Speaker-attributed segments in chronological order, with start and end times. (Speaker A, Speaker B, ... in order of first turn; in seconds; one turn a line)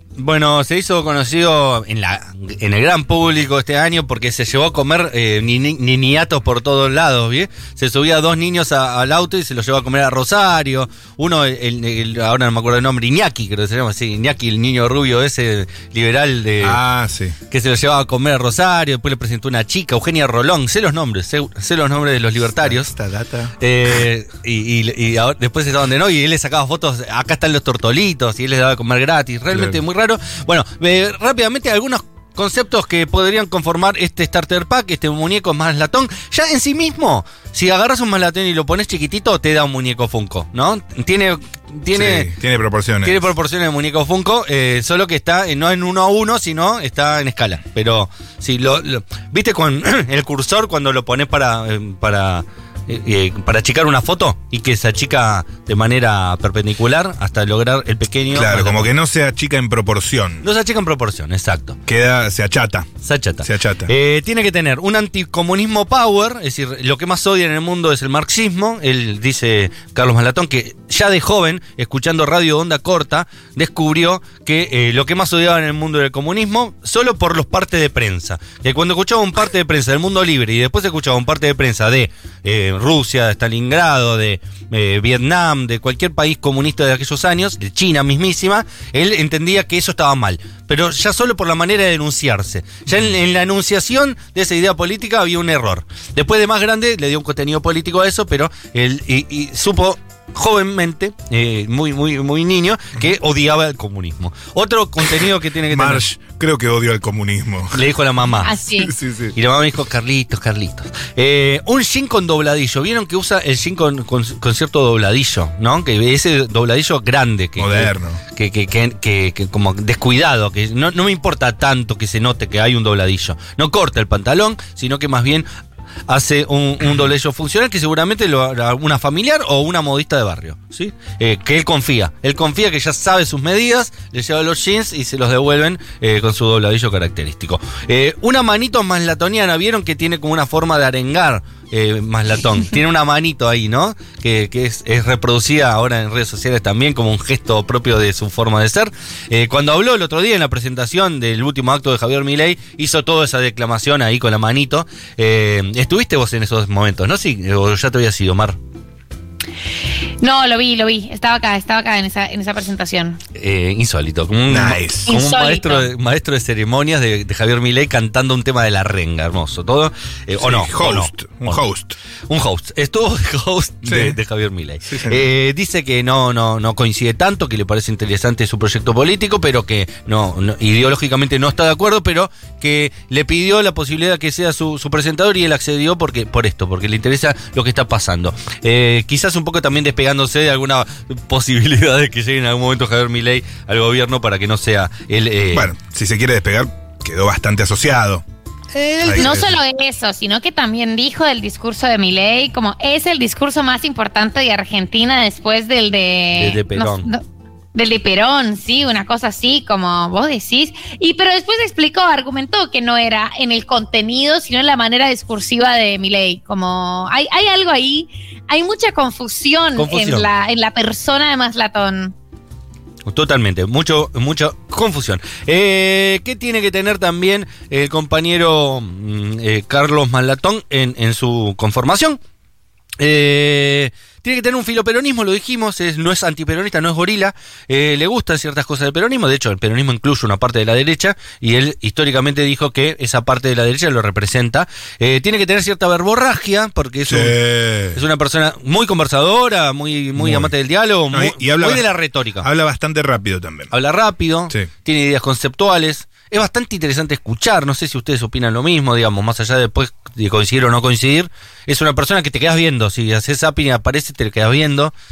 Speaker A: 0.2-16.8
Speaker B: 16.6-17.4
Speaker A: 17.5-22.9
Speaker B: 22.6-23.6
Speaker A: 23.6-42.3
Speaker B: 29.5-29.8
Speaker B: 41.9-43.3
Speaker A: 43.0-58.9
Speaker B: 58.3-60.5
Speaker A: 60.4-61.8
Speaker B: 61.9-62.9
Speaker A: 63.0-106.0
Speaker B: 63.4-63.9
Speaker B: 105.7-107.9
Speaker A: 107.7-108.5
Speaker C: 108.4-108.9
Speaker B: 108.7-109.3
Speaker A: 109.3-125.5
Speaker B: 117.6-118.2
Speaker A: 126.1-158.6
Speaker C: 160.2-163.2
Speaker A: 163.3-171.6
Speaker B: 164.5-165.1
Speaker C: 165.1-165.9
Speaker B: 170.4-172.0
Speaker A: 172.3-195.7
Speaker B: 173.8-174.2
Speaker B: 174.9-175.3
Speaker B: 195.5-198.2
Speaker A: 198.7-199.6
Speaker B: 199.0-199.6
Speaker C: 199.2-207.2
Speaker A: 206.4-207.1
Speaker C: 207.8-222.2
Speaker A: 219.8-220.3
Speaker A: 223.1-232.2
Speaker A: 233.0-247.4
Speaker B: 247.1-248.0
Speaker A: 247.9-252.5
Speaker B: 250.2-250.5
Speaker B: 251.1-251.8
Speaker B: 252.4-253.7
Speaker A: 253.7-264.9